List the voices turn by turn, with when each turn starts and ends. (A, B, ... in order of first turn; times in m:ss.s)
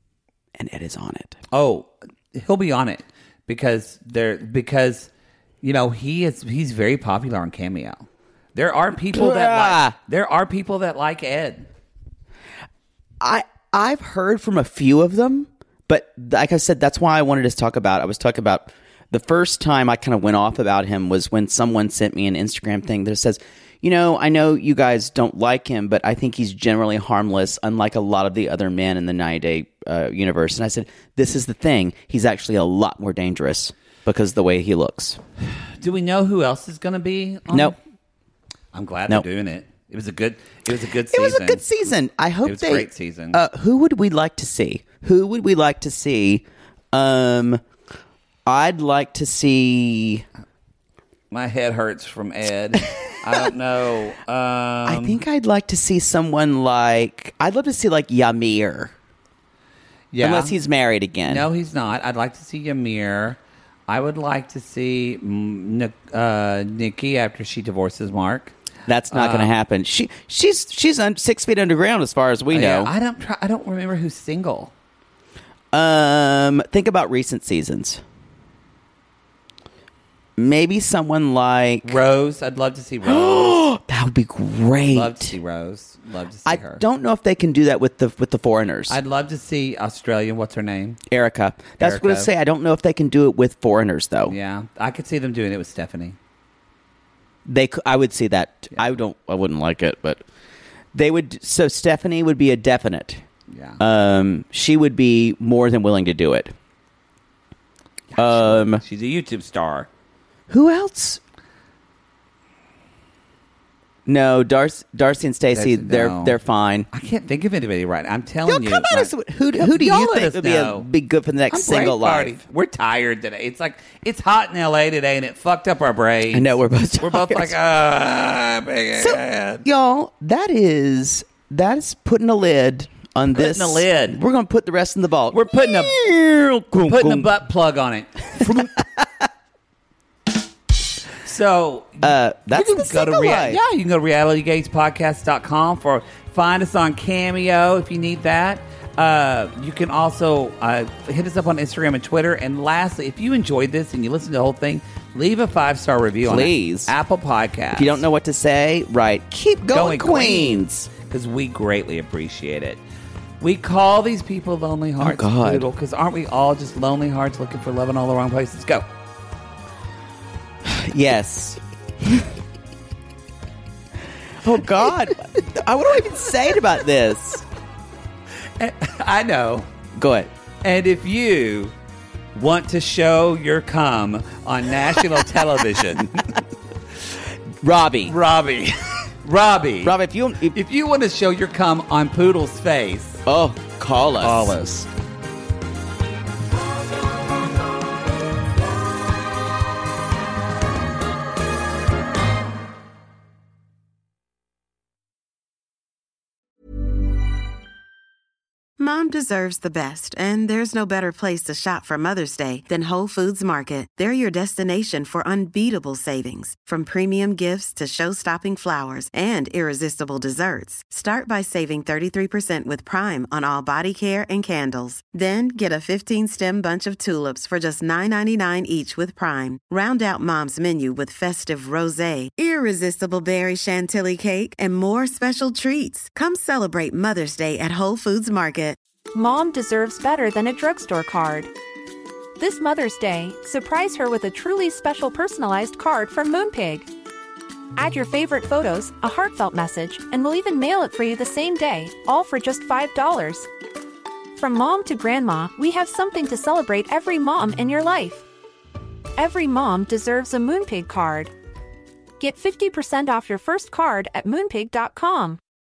0:00.6-0:01.4 A
0:01.5-0:05.1 B
0:05.6-0:11.7 B
0:09.1-0:10.0 A
0:13.2-0:35.2 A
0:35.8-0:37.8 B
0:37.5-0:37.8 A
0:38.7-0:41.6 B
0:41.1-0:47.6 A
0:42.4-0:43.4 B
0:48.4-0:50.2 A
0:51.3-0:55.2 B
0:54.8-0:58.9 A
1:00.1-1:00.5 B
1:00.2-1:01.5 A
1:01.3-1:08.5 B
1:08.9-1:12.9 A
1:09.1-1:09.5 B
1:12.5-1:14.7 B
1:15.7-1:18.0 A
1:20.4-1:22.0 A
1:21.8-1:23.7 B
1:23.0-1:25.3 A
1:24.9-1:26.8 B
1:26.4-1:29.0 A
1:28.9-1:31.0 B
1:31.1-1:34.3 A
1:31.8-1:32.3 B
1:34.2-1:36.2 B
1:37.4-1:40.2 A
1:40.9-1:43.2 A
1:43.5-1:43.8 B
1:43.8-1:46.5 A
1:48.1-1:49.9 B
1:48.2-1:48.8 A
1:50.5-1:51.2 A
1:54.0-1:56.9 A
1:55.5-1:56.4 B
1:56.9-2:00.8 B
1:58.4-2:02.4 A
2:01.5-2:09.6 B
2:06.3-2:07.5 A
2:09.0-2:17.3 A
2:13.3-2:14.2 B
2:15.3-2:16.0 B
2:16.8-2:18.7 B
2:18.4-2:19.3 A
2:21.2-2:38.0 B
2:22.0-2:23.6 A
2:36.2-2:36.9 A
2:37.7-2:40.9 A
2:39.7-2:42.8 B
2:43.4-2:48.8 B
2:45.0-2:45.7 A
2:50.6-2:52.3 A
2:54.4-2:57.4 A
2:58.6-2:59.7 B
2:59.9-3:00.3 A
3:00.6-3:01.7 B
3:02.3-3:06.1 B
3:07.6-3:08.1 A
3:08.1-3:09.9 B
3:09.8-3:10.6 A
3:10.5-3:13.2 B
3:13.2-3:14.7 A
3:14.2-3:14.8 B
3:28.8-3:58.8 C
3:59.1-4:01.5 D
4:02.4-4:06.9 D
4:07.8-4:13.5 D
4:14.4-4:18.2 D
4:19.2-4:21.3 D
4:22.2-4:25.4 D